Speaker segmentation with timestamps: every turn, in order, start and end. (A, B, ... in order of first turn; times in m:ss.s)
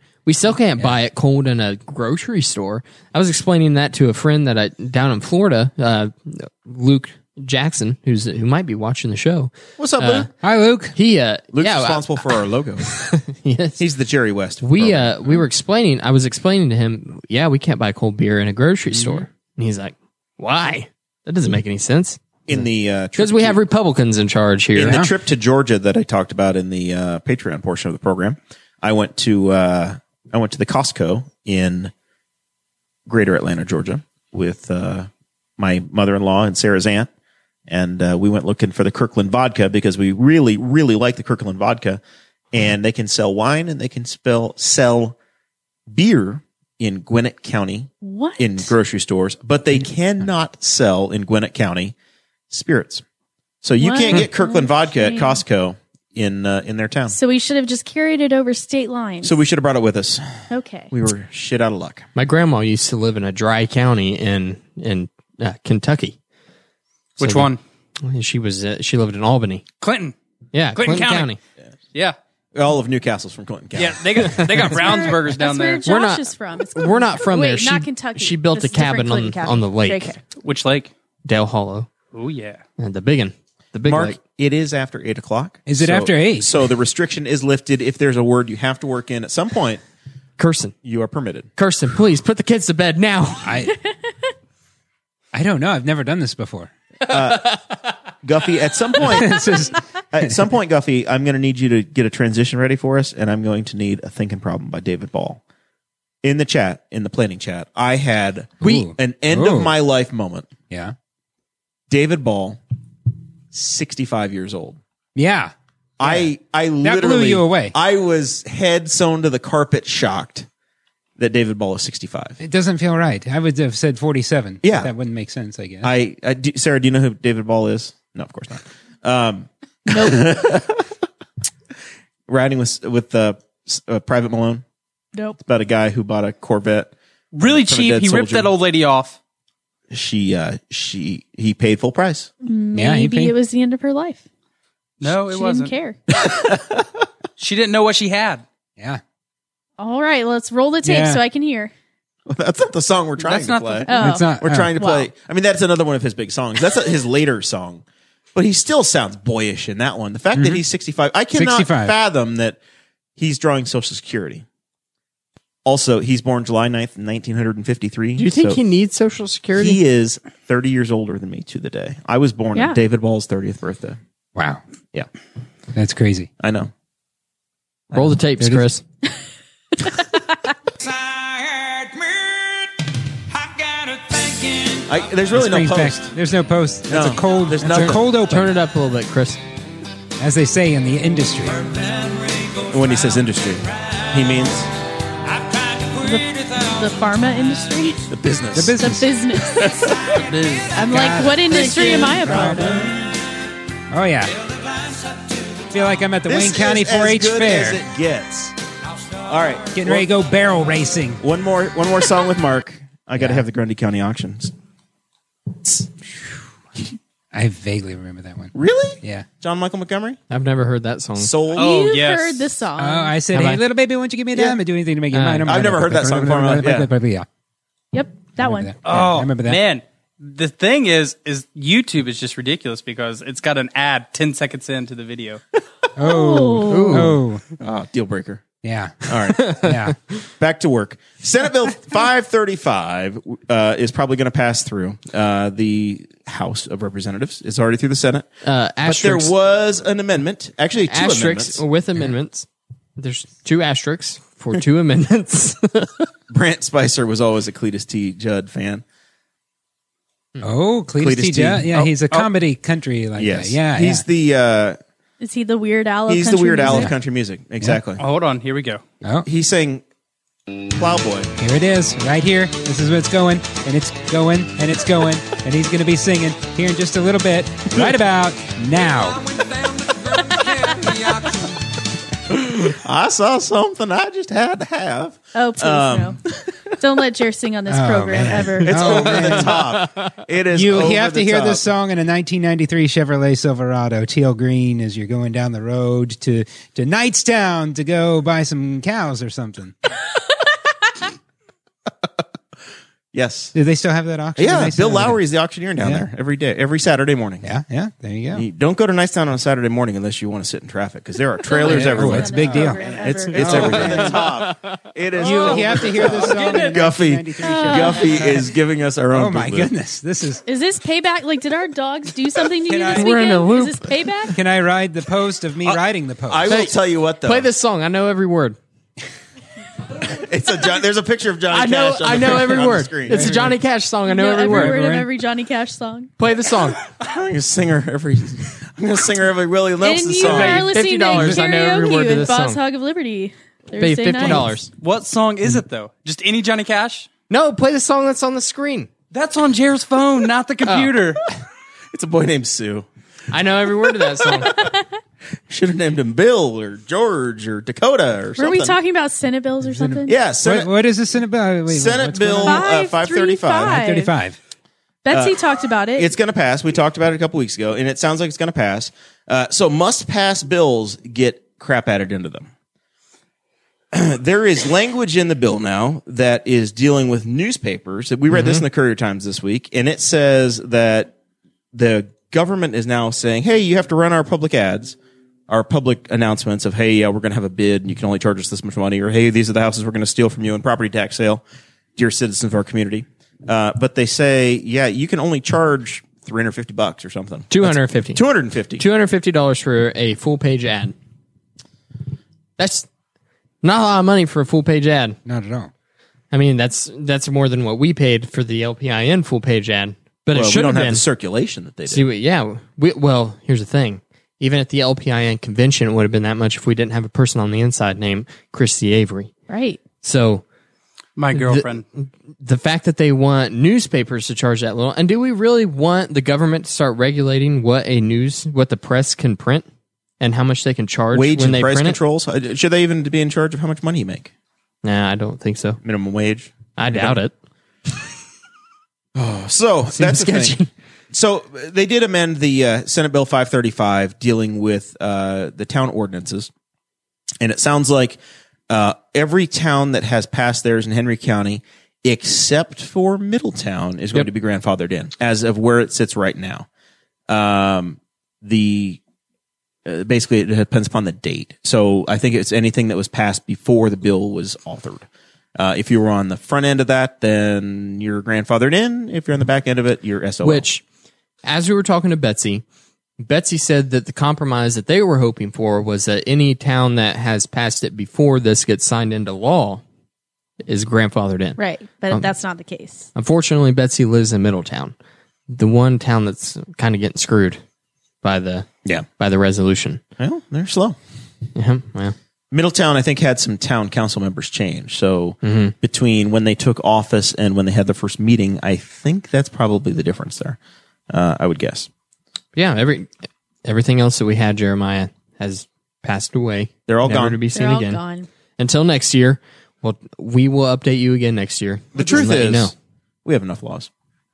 0:00.3-0:10.3 A
0:09.8-0:10.3 B
0:10.4-0:11.0 C
0:10.9-0:12.3 A
0:11.5-0:12.9 B
0:12.9-0:13.8 A
0:13.8-0:15.4 B
0:14.6-0:25.0 A
0:22.5-0:23.6 B
0:24.8-0:31.9 B
0:24.8-0:25.1 C
0:33.1-0:37.1 B
0:37.7-0:42.0 B
0:42.5-0:45.2 B
0:45.9-0:51.9 B
0:48.0-0:48.7 D
0:52.5-0:53.0 B
0:53.6-0:57.2 B
0:53.8-0:55.4 D
0:57.1-0:59.4 D
0:59.2-1:00.3 B
1:00.5-1:00.9 D
1:00.9-1:02.1 B
1:02.2-1:06.2 A
1:07.2-1:07.6 E
1:07.2-1:09.6 A
1:09.8-1:10.2 E
1:10.5-1:11.4 A
1:10.8-1:11.3 E
1:12.5-1:14.7 B
1:13.8-1:15.8 E
1:14.7-1:20.2 D
1:15.8-1:20.1 A
1:20.4-1:20.9 E
1:21.2-1:21.9 A
1:22.1-1:22.6 E
1:22.8-1:24.2 A
1:23.9-1:29.8 B
1:25.7-1:26.5 C
1:30.4-1:30.7 A
1:30.8-1:31.5 B
1:31.6-1:33.5 A
1:33.4-1:33.7 C
1:35.3-1:36.7 C
1:37.1-1:37.6 B
1:38.2-1:39.5 B
1:39.0-1:40.4 C
1:40.1-1:45.4 B
1:46.2-1:50.5 B
1:48.6-1:49.7 C
1:50.7-1:51.0 C
1:51.9-1:52.6 B
1:53.5-1:54.8 B
1:55.2-1:56.3 C
1:56.0-2:00.5 B
1:56.8-1:57.8 C
2:01.2-2:02.4 B
2:02.4-2:05.9 C
2:04.6-2:04.9 B
2:05.8-2:10.9 B
2:09.9-2:10.2 D
2:12.3-2:14.6 B
2:15.4-2:16.9 B
2:17.3-2:19.2 E
2:17.4-2:18.5 B
2:19.9-2:22.3 B
2:22.4-2:24.2 D
2:22.7-2:23.4 C
2:25.0-2:25.8 E
2:25.3-2:26.0 D
2:26.2-2:26.8 B
2:27.4-2:28.4 E
2:29.8-2:31.7 D
2:30.8-2:31.2 C
2:32.3-2:37.8 B
2:33.2-2:34.0 E
2:33.9-2:35.1 D
2:34.0-2:34.7 C
2:38.4-2:42.6 B
2:40.3-2:40.6 C
2:41.3-2:42.0 C
2:43.2-2:44.4 B
2:45.6-2:48.6 B
2:48.2-2:49.8 A
2:49.6-2:54.0 B
2:54.4-2:54.6 C
2:55.8-2:56.3 C
2:56.4-2:56.7 B
2:57.9-2:58.8 A
2:58.4-2:58.7 C
2:59.8-3:00.2 D
3:01.0-3:02.5 C
3:03.6-3:04.3 C
3:04.9-3:06.1 B
3:05.3-3:08.5 C
3:06.9-3:08.0 B
3:07.8-3:09.4 A
3:10.2-3:11.7 C
3:12.7-3:14.7 B
3:15.9-3:18.1 D
3:18.1-3:18.9 B
3:18.5-3:19.1 C
3:18.8-3:20.0 D
3:19.5-3:20.6 B
3:20.7-3:22.8 D
3:20.9-3:22.9 C
3:21.8-3:23.1 B
3:23.9-3:24.4 C
3:25.5-3:27.8 C
3:26.3-3:28.6 B
3:29.3-3:30.1 B
3:29.7-3:31.2 C
3:31.2-3:34.5 B
3:35.6-3:36.5 B
3:37.3-3:39.3 C
3:38.6-3:40.2 B
3:40.3-3:41.3 A
3:41.2-3:41.8 B
3:41.5-3:43.2 D
3:41.6-3:42.5 E
3:42.8-3:47.3 C
3:43.3-3:43.6 A
3:45.1-3:45.5 A
3:45.4-3:46.9 B
3:47.9-3:48.7 D
3:48.4-3:49.6 C
3:48.8-3:55.4 E
3:56.0-3:57.4 C
3:56.0-3:57.1 D
3:56.6-3:57.2 A
3:57.6-3:58.4 B
3:58.6-4:00.0 C
3:59.1-3:59.6 B
3:59.4-3:59.9 A
4:00.4-4:08.3 B
4:08.4-4:09.3 A
4:08.8-4:11.6 B
4:10.8-4:16.1 A
4:16.3-4:18.8 B
4:20.4-4:24.0 C
4:21.0-4:22.3 B
4:23.2-4:24.8 B
4:25.2-4:26.9 D
4:26.1-4:28.0 B
4:26.7-4:26.9 C
4:28.0-4:28.8 E
4:29.0-4:29.3 C
4:29.2-4:29.8 B
4:30.7-4:31.3 B
4:31.4-4:39.5 C
4:42.4-4:46.2 B
4:45.4-4:46.2 D
4:46.8-4:49.4 D
4:47.7-4:49.7 C
4:48.6-4:51.6 B
4:50.5-4:59.8 C
5:03.1-5:03.6 B
5:03.5-5:05.2 C
5:04.4-5:07.5 B
5:05.8-5:06.1 C
5:07.4-5:08.5 C
5:08.3-5:19.7 B
5:11.4-5:14.1 D
5:11.6-5:14.2 C
5:13.4-5:14.7 A
5:15.2-5:18.5 C
5:15.3-5:16.6 E
5:17.4-5:18.1 D
5:19.1-5:20.4 C
5:20.5-5:24.4 D
5:22.6-5:23.1 C
5:22.9-5:24.2 A
5:24.3-5:26.5 C
5:25.6-5:27.5 B
5:26.5-5:28.6 A
5:30.0-5:33.4 B
5:31.5-5:34.8 A
5:33.1-5:33.6 C
5:34.1-5:36.1 D
5:34.4-5:35.1 C
5:36.2-5:36.8 A
5:37.0-5:40.7 B
5:39.8-5:44.6 D
5:40.2-5:42.6 A
5:43.8-5:44.7 A
5:44.7-5:47.1 E
5:47.3-5:48.9 A
5:49.1-5:51.2 E
5:50.6-5:50.9 A
5:51.9-5:52.9 B
5:53.3-5:54.7 A
5:54.5-5:54.9 D
5:55.5-5:58.8 B
5:58.4-6:00.2 D
5:59.6-6:02.7 C
6:00.1-6:00.7 B
6:01.7-6:03.8 B
6:02.4-6:04.2 D
6:03.6-6:04.4 C
6:05.0-6:06.1 D
6:05.1-6:05.4 B
6:06.0-6:12.5 B
6:13.9-6:21.1 B
6:18.3-6:18.6 A
6:21.7-6:25.0 B
6:25.5-6:31.4 B
6:32.0-6:38.8 B
6:37.5-6:38.2 A
6:38.8-6:41.0 A
6:42.6-6:42.9 A
6:43.6-6:45.2 A
6:45.3-6:45.7 C
6:46.3-6:51.0 A
6:50.3-6:52.0 B
6:51.9-6:59.3 A
6:59.5-6:59.8 D
7:00.0-7:00.4 A
7:01.2-7:01.8 E
7:01.3-7:09.7 A
7:10.2-7:12.0 A
7:11.1-7:14.3 B
7:14.8-7:15.8 A
7:15.8-7:17.2 B
7:16.8-7:17.3 A
7:19.2-7:20.6 B
7:19.9-7:20.7 A
7:21.1-7:26.5 B
7:27.4-7:36.7 B
7:37.3-7:39.0 B
7:39.9-7:50.6 B
7:50.4-7:50.8 A
7:51.4-7:52.6 A
7:53.2-7:59.8 A
8:00.7-8:01.6 A
8:01.6-8:03.1 D
8:03.2-8:04.9 A
8:05.5-8:07.6 A
8:08.2-8:10.0 A
8:10.2-8:11.0 B
8:11.6-8:12.2 A
8:12.5-8:20.6 B
8:15.4-8:15.8 A
8:21.1-8:21.9 B
8:22.6-8:23.1 A
8:23.6-8:28.0 A
8:26.9-8:27.4 B
8:27.5-8:28.3 D
8:28.6-8:32.7 A
8:32.0-8:32.7 B
8:33.2-8:33.9 B